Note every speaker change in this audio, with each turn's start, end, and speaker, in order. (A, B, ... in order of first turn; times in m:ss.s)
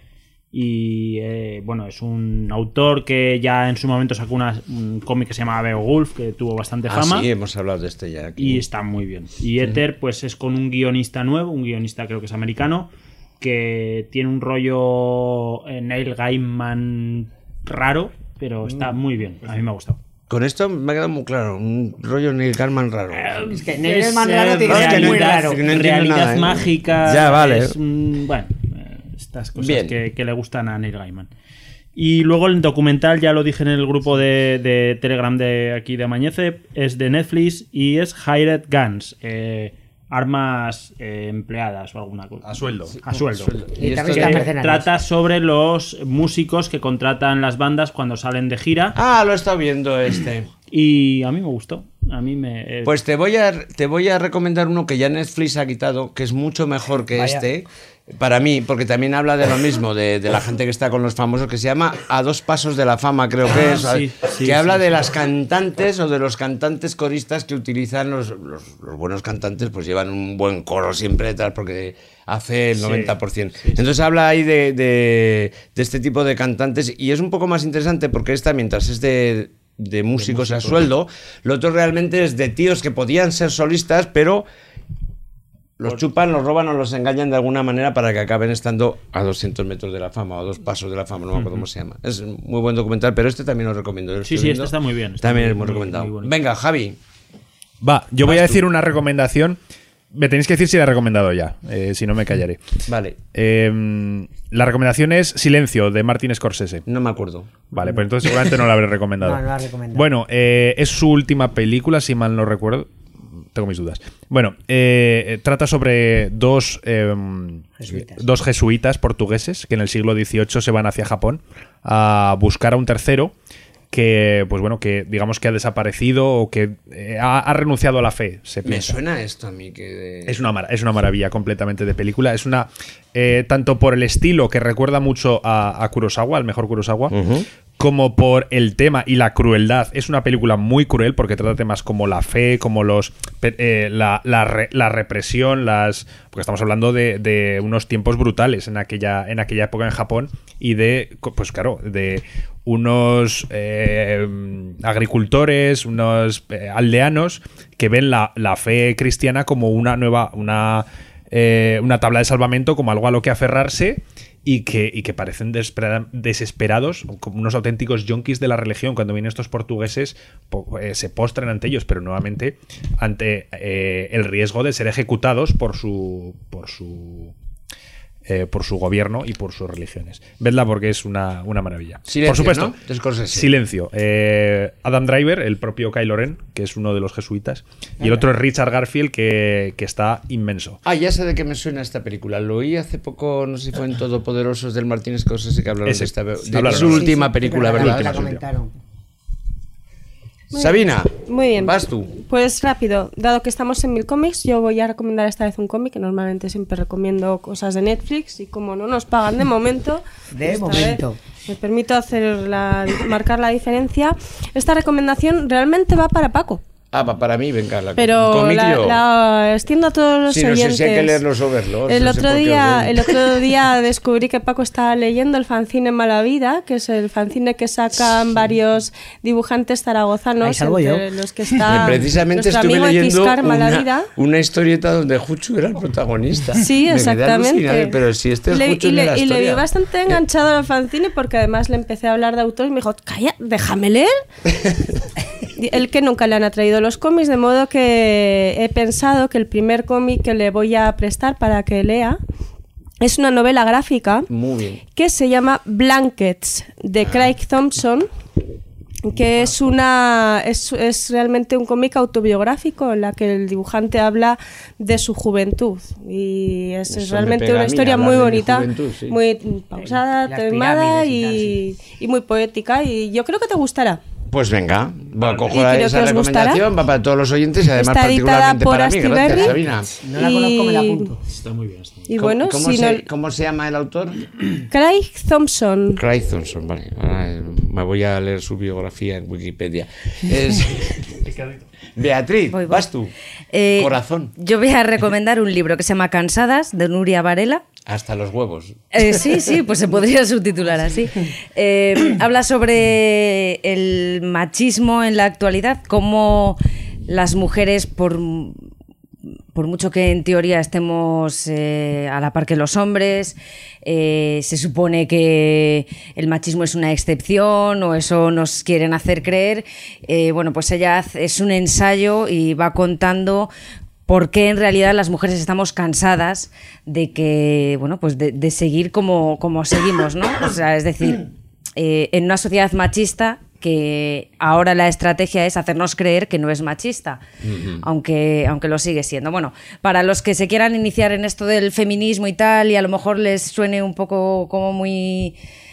0:00.5-0:07.3 A
0:06.9-0:08.6 B
0:08.4-0:20.0 A
0:20.3-0:23.5 B
0:23.1-0:31.3 A
0:23.5-0:25.6 C
0:24.6-0:27.7 B
0:29.6-0:30.0 B
0:32.0-0:42.5 A
0:42.4-0:43.0 D
0:43.0-0:49.0 A
0:43.8-0:44.9 C
0:43.8-0:44.5 B
0:48.9-0:50.5 B
0:50.7-0:52.9 A
0:52.8-0:57.6 B
0:57.1-0:57.4 C
0:58.2-1:24.4 B
1:03.5-1:05.0 A
1:12.8-1:13.8 A
1:20.2-1:20.9 A
1:25.8-1:37.0 B
1:31.3-1:31.7 A
1:34.2-1:36.4 A
1:37.8-1:39.6 D
1:38.2-1:38.6 B
1:40.1-1:42.6 D
1:42.9-1:43.2 B
1:43.3-1:46.8 D
1:46.9-1:47.6 B
1:47.7-1:49.4 D
1:49.2-1:50.1 C
1:49.9-1:52.9 D
1:53.5-2:03.3 D
1:57.8-1:58.2 C
2:03.9-2:09.0 D
2:08.6-2:10.4 B
2:10.2-2:17.1 D
2:17.1-2:17.4 B
2:17.8-2:57.3 D
2:58.2-3:02.8 D
3:02.1-3:03.5 B
3:03.3-3:10.8 D
3:10.8-3:18.4 B
3:15.8-3:17.2 D
3:16.5-3:18.7 C
3:17.7-3:18.2 D
3:20.5-3:22.1 B
3:20.5-3:36.6 E
3:30.3-3:31.2 C
3:36.9-3:39.0 B
3:38.0-3:41.2 E
3:40.3-3:43.5 B
3:41.8-3:54.1 E
3:50.4-3:52.0 C
3:51.6-4:00.2 B
3:56.6-3:58.0 E
3:58.5-4:04.1 E
4:05.6-4:12.2 E
4:13.0-4:14.3 E
4:14.3-4:14.8 B
4:14.9-4:18.1 E
4:19.0-4:34.0 E
4:26.9-4:29.2 B
4:29.8-4:31.6 C
4:34.3-4:39.9 B
4:35.4-4:36.6 E
4:37.7-4:39.5 E
4:39.4-4:41.2 C
4:40.1-4:41.1 E
4:41.2-4:42.1 A
4:42.1-4:43.0 E
4:42.2-4:44.6 B
4:44.7-4:46.0 E
4:46.0-4:51.4 B
4:52.0-4:53.1 B
4:52.5-4:52.9 F
4:53.5-4:57.6 F
4:53.7-4:54.3 B
4:57.9-4:59.3 B
4:58.9-5:08.6 F
5:09.5-5:23.5 F
5:24.1-5:37.2 F
5:37.4-5:37.8 B
5:37.8-5:45.3 F